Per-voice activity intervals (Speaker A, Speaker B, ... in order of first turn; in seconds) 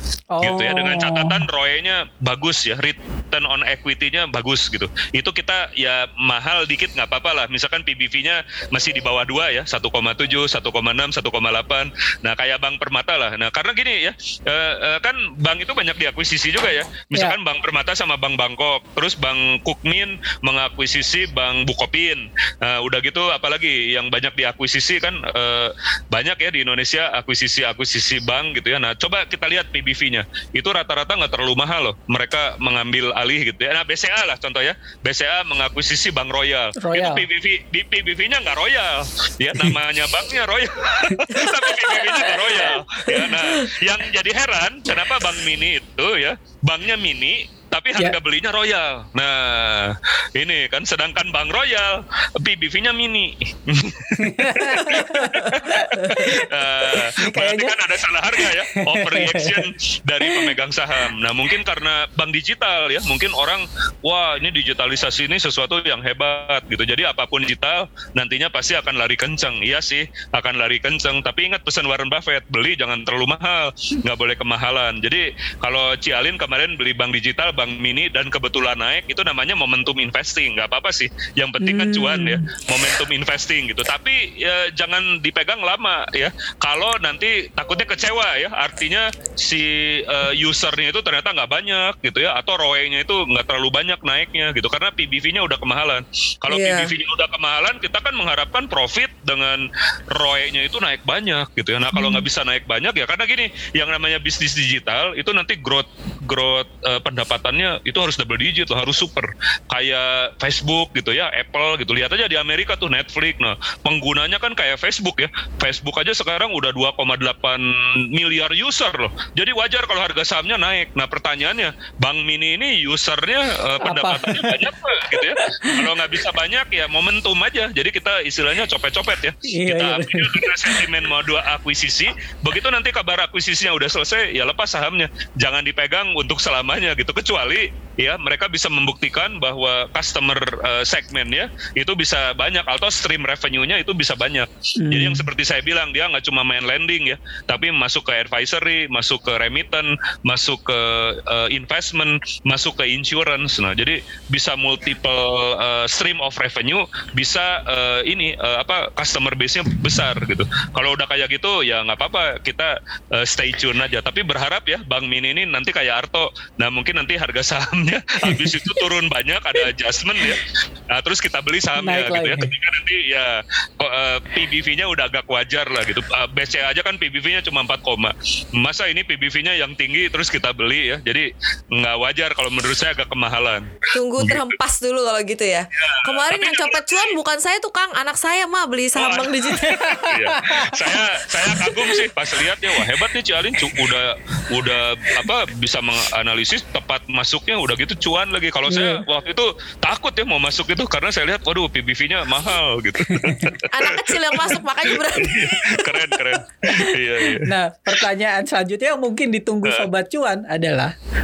Speaker A: 0.3-1.4, 36.8-37.2, 41.1-41.7, 54.2-59.7, 60.2-60.5, 81.6-82.9, 123.8-125.9, 129.5-130.9, 144.8-145.3, 168.2-168.8, 171.8-172.5, 189.6-192.1, 198.7-199.0, 203.1-203.5, 206.6-210.9
Speaker B: 0.4-184.5, 185.8-187.1, 189.0-207.5
Speaker C: 41.5-42.3, 96.5-96.9, 183.9-189.7, 203.7-205.8